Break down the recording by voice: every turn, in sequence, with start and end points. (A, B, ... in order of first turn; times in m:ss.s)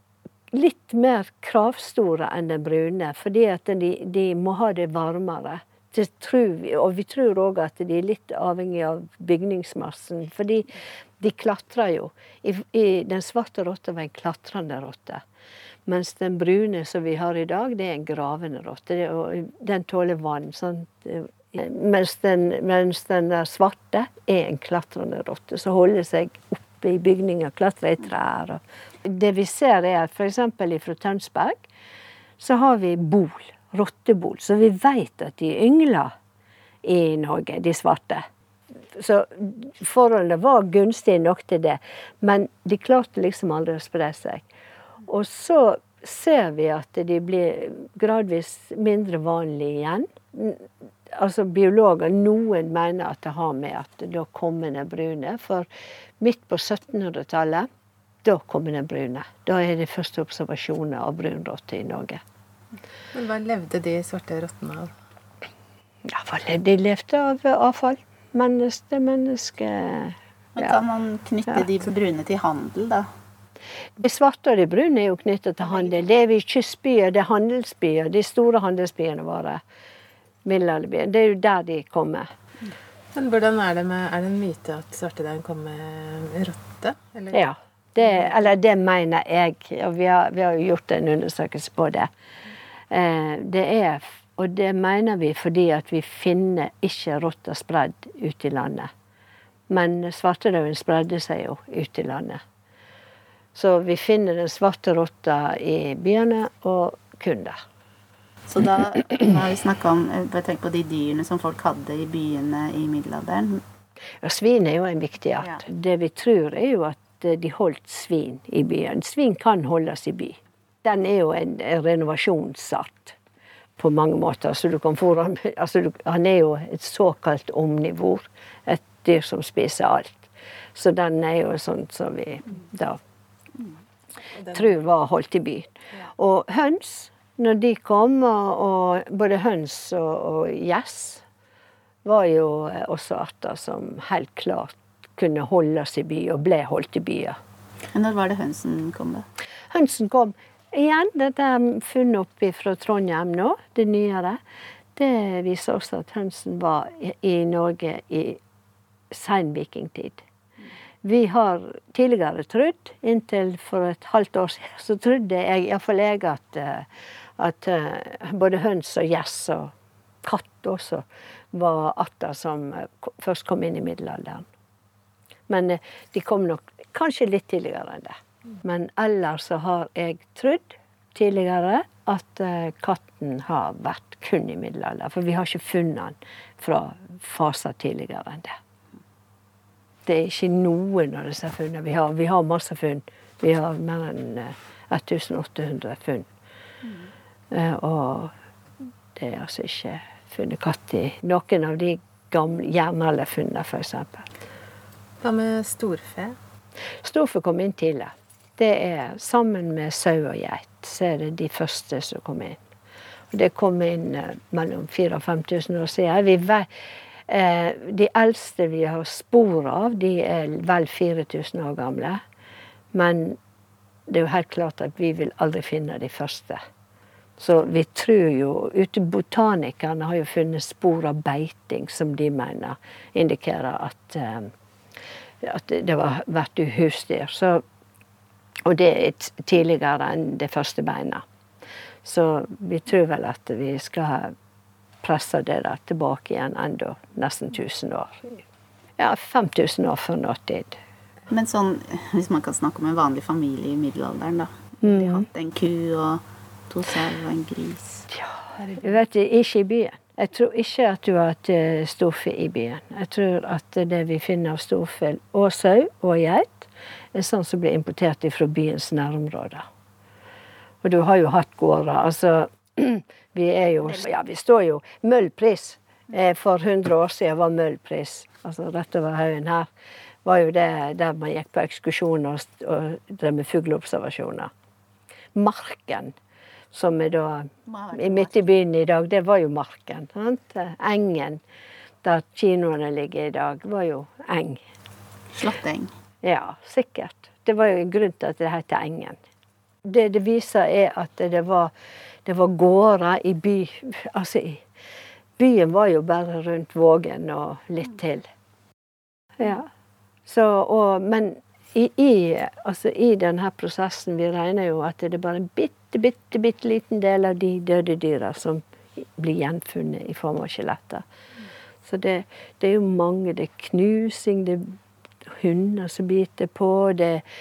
0:00.5-0:15.2 A
0:15.8-0:31.6 A
0:32.4-0:36.1 A
0:36.8-0:38.2 A
0:38.9-0:44.4 A
0:45.1-0:55.7 A
0:56.2-0:57.7 A
0:58.2-1:02.2 A
1:03.1-1:04.9 B
1:06.0-1:10.7 A
1:10.6-1:13.1 C
1:14.0-1:19.6 A
1:20.4-1:22.3 A
1:23.1-1:27.4 B
1:27.3-1:32.1 A
1:32.9-1:38.9 A
1:39.7-1:42.4 A
1:43.5-1:47.6 A
1:48.5-1:53.6 C
1:54.2-2:03.2 A
2:03.8-2:13.0 A
2:14.4-2:14.7 B
2:14.5-2:21.2 A
2:22.0-2:27.4 A
2:27.9-2:29.2 C
2:29.7-2:34.4 A
2:34.9-2:38.4 A
2:39.1-2:40.2 A
2:41.0-2:54.5 A
2:55.5-3:08.5 A
3:10.0-3:16.3 A
3:17.5-3:18.3 A
3:19.1-3:24.3 A
3:25.2-3:26.4 B
3:27.0-3:32.6 A
3:33.3-3:36.7 A
3:37.3-3:42.2 A
3:42.9-3:43.4 A
3:44.1-3:46.6 A
3:47.4-3:54.5 A
3:55.4-3:57.6 A
3:58.6-4:01.2 A
4:02.0-4:04.3 A
4:05.0-4:08.4 A
4:09.0-4:10.8 A
4:11.3-4:18.0 C
4:14.8-4:15.2 A
4:18.1-4:29.6 A
4:30.8-4:39.7 A
4:40.2-4:44.5 A
4:45.3-4:46.1 A
4:46.7-4:51.4 A
4:47.7-4:48.3 C
4:52.0-4:54.6 A
4:55.3-4:55.9 C
4:56.2-4:59.2 A
4:59.8-5:01.7 A
5:02.2-5:04.6 A
5:05.4-5:08.3 A
5:09.4-5:09.7 A
5:10.2-5:21.0 A
5:21.8-5:27.2 A